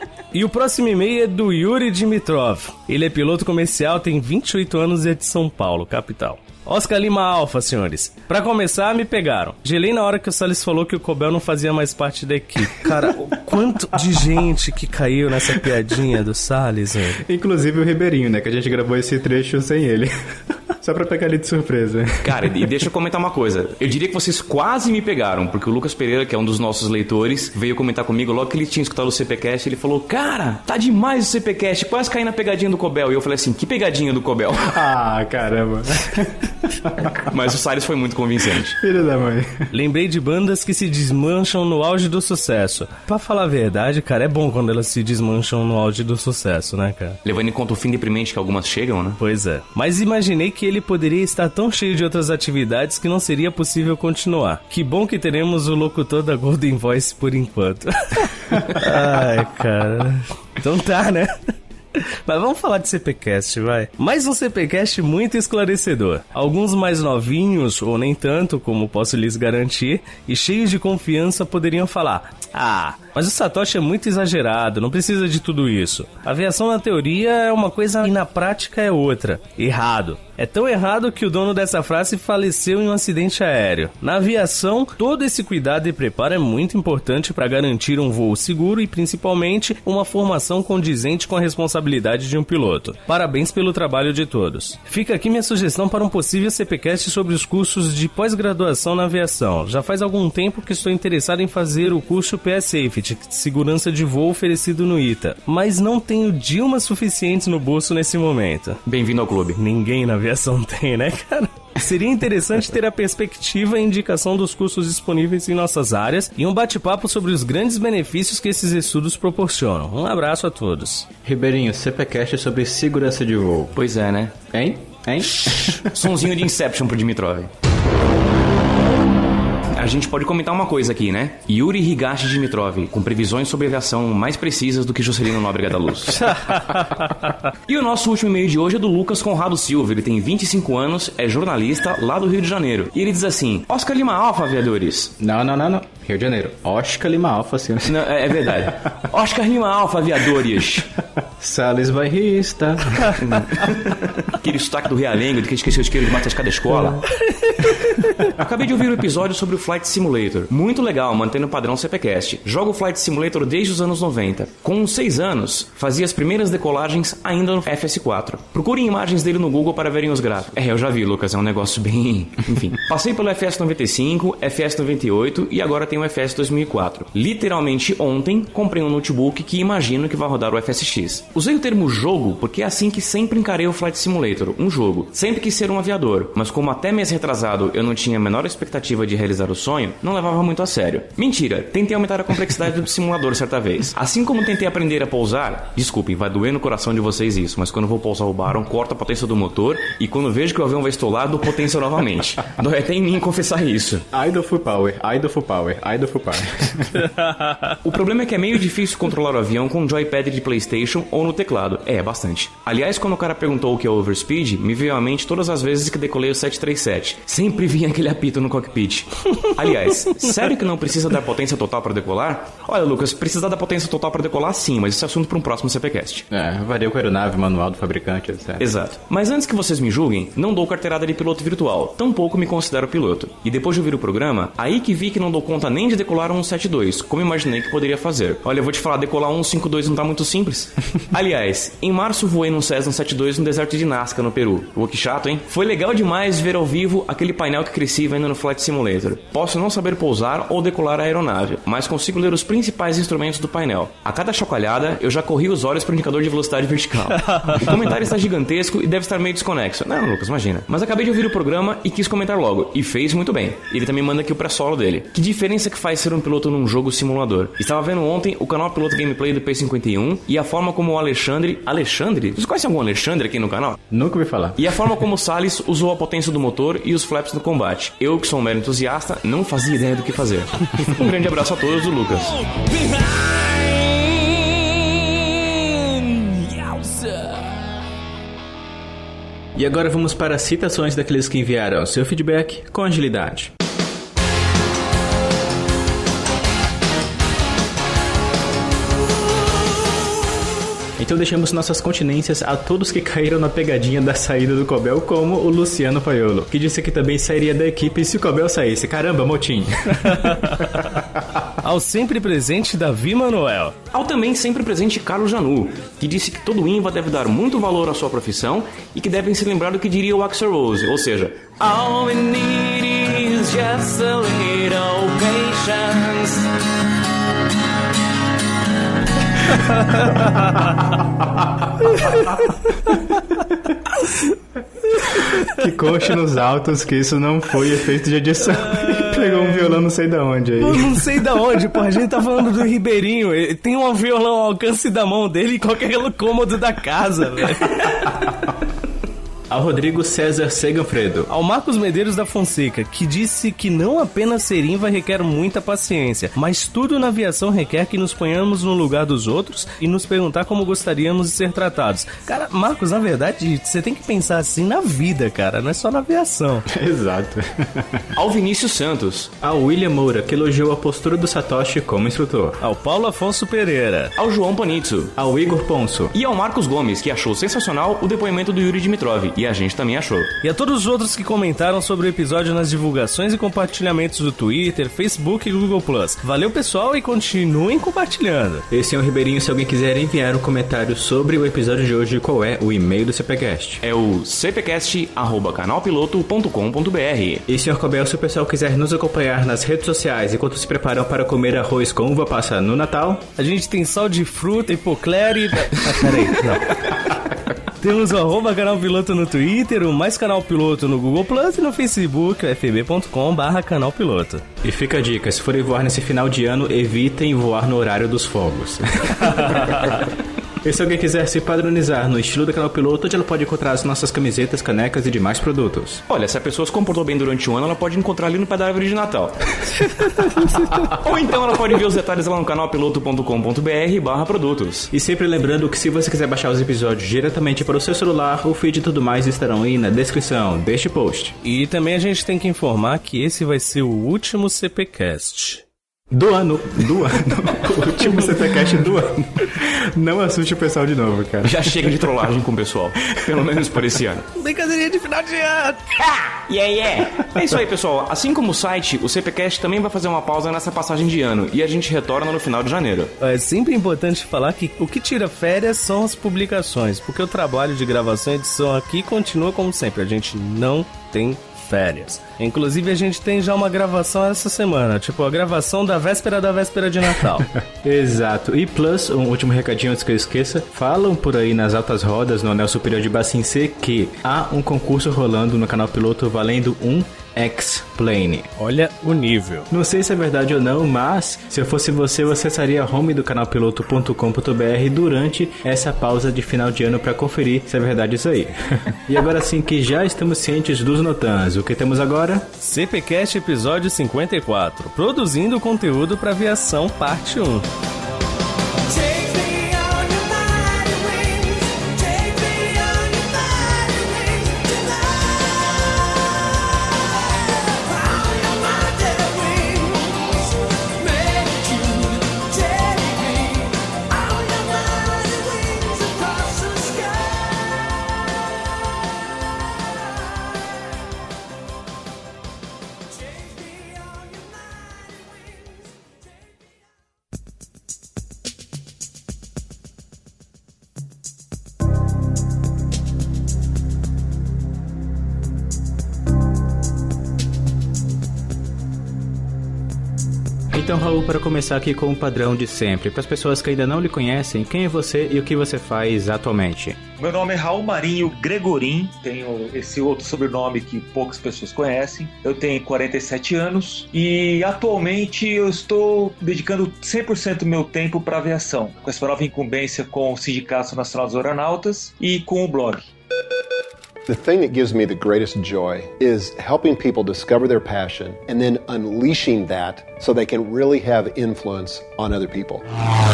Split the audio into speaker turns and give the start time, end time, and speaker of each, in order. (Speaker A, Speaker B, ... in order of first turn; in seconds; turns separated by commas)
Speaker A: 0.3-17.2, Speaker B: 17.2-22.5, Speaker C: 22.2-34.8, Speaker B: 34.7-37.3, Speaker C: 37.2-38.8, Speaker B: 38.8-39.7, Speaker A: 39.7-47.2, Speaker C: 47.2-49.2, Speaker A: 49.2-108.8, Speaker C: 108.8-109.6, Speaker A: 109.5-121.1, Speaker B: 121.2-123.7, Speaker C: 123.7-124.4, Speaker B: 124.5-125.9, Speaker C: 125.8-127.5, Speaker C: 129.7-136.3, Speaker A: 136.3-137.1, Speaker C: 137.7-145.1, Speaker B: 145.2-148.7, Speaker C: 147.8-150.9, Speaker B: 151.4-153.4, Speaker C: 153.2-157.1, Speaker A: 157.2-158.2, Speaker C: 158.3-204.1, Speaker B: 204.1-207.0, Speaker A: 207.1-207.7, Speaker C: 207.8-226.2, Speaker B: 226.3-228.6, Speaker C: 228.6-273.8, Speaker A: 257.3-257.6, Speaker B: 273.9-274.6, Speaker C: 274.6-282.4, Speaker C: 283.1-287.1, Speaker B: 289.6-293.5, Speaker B: 301.0-311.2, Speaker A: 310.0-310.7, Speaker A: 311.6-313.7, Speaker C: 313.9-326.6, Speaker A: 332.0-332.4, Speaker B: 335.1-341.2, Speaker A: 338.6-339.8, Speaker A: 340.6-348.2, Speaker B: 349.5-351.3, Speaker A: 351.3-366.6, Speaker B: 366.7-368.1, Speaker C: 368.1-369.3, Speaker B: 369.4-372.6, Speaker A: 372.6-374.1, Speaker C: 374.2-375.1, Speaker B: 375.1-376.1, Speaker C: 376.1-380.3, Speaker A: 380.4-388.6, Speaker B: 388.7-393.8, Speaker C: 393.8-397.4, Speaker B: 397.5-403.2, Speaker A: 403.4-407.1, Speaker A: 407.8-414.4, Speaker B: 414.6-420.1, Speaker B: 420.6-426.0, Speaker C: 426.1-429.4, Speaker C: 430.8-434.9, Speaker B: 434.9-441.4, Speaker A: 441.4-445.6, Speaker B: 446.1-452.1, Speaker C: 451.4-454.2, Speaker A: 454.4-455.9, Speaker C: 456.0-463.1, Speaker A: 463.2-477.5, Speaker B: 477.6-488.5, Speaker A: 488.6-489.7, Speaker B: 489.7-502.5, Speaker A: 502.6-507.7, Speaker A: 508.9-515.3, Speaker A: 518.0-520.1, Speaker A: 521.0-523.4, Speaker A: 524.3-527.0, Speaker B: 550.7-557.0, Speaker D: 557.2-573.1, Speaker E: 574.3-582.8